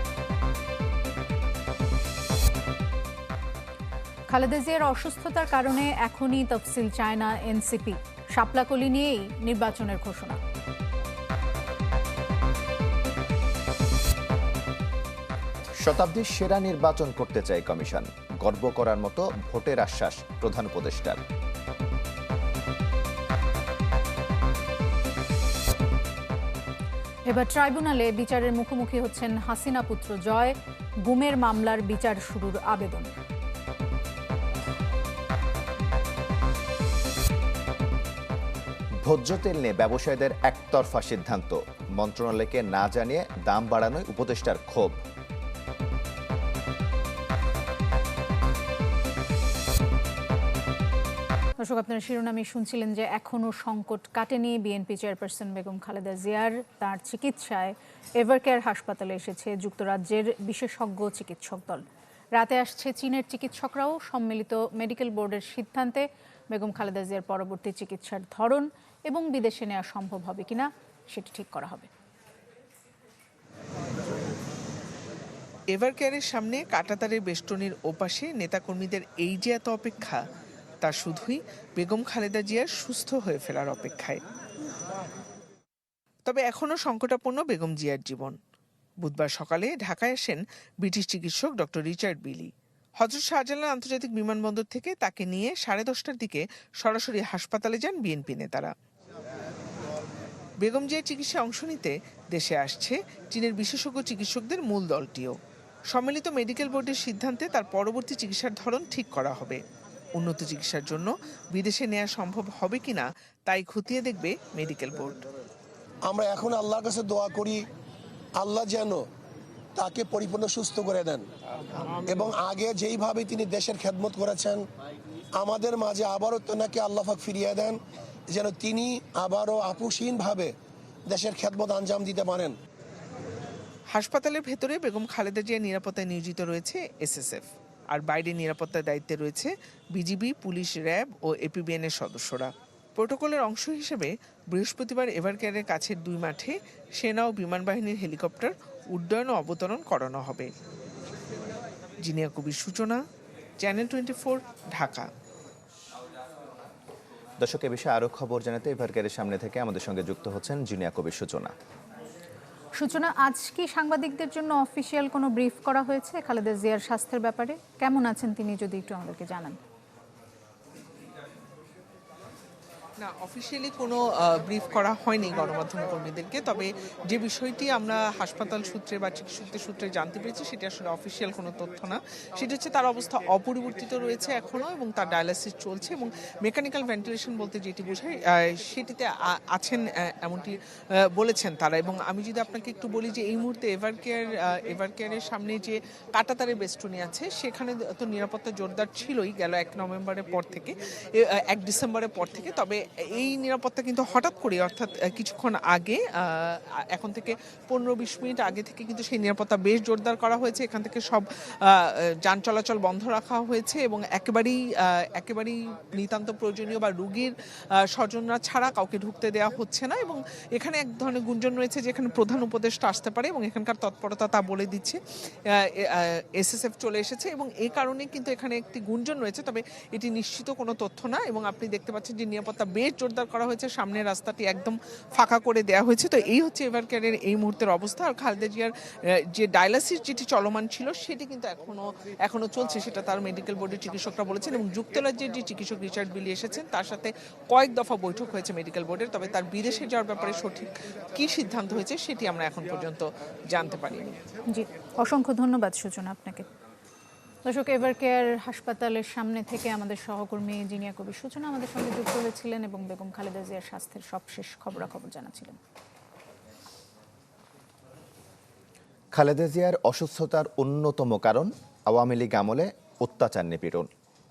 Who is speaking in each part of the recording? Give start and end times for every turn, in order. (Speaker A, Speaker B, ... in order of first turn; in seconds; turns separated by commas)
Speaker A: 4.3-10.4, Speaker B: 15.8-21.2, Speaker A: 27.3-33.1, Speaker B: 39.0-45.0, Speaker A: 51.6-61.8, Speaker A: 62.4-71.9, Speaker C: 75.7-80.2, Speaker C: 80.8-84.2, Speaker C: 86.3-88.4, Speaker C: 89.0-98.7, Speaker C: 100.6-105.4, Speaker C: 105.9-109.6, Speaker C: 110.2-115.2, Speaker D: 116.1-117.6, Speaker D: 118.4-119.0, Speaker D: 119.8-121.3, Speaker D: 122.0-124.6, Speaker D: 125.4-127.8, Speaker D: 128.3-130.5, Speaker D: 131.1-132.6, Speaker C: 133.9-150.5, Speaker C: 152.0-153.0, Speaker C: 153.6-155.1, Speaker B: 157.4-161.5, Speaker A: 162.8-169.6, Speaker C: 173.0-254.2, Speaker A: 254.5-256.5, Speaker A: 257.5-265.6, Speaker B: 269.1-273.9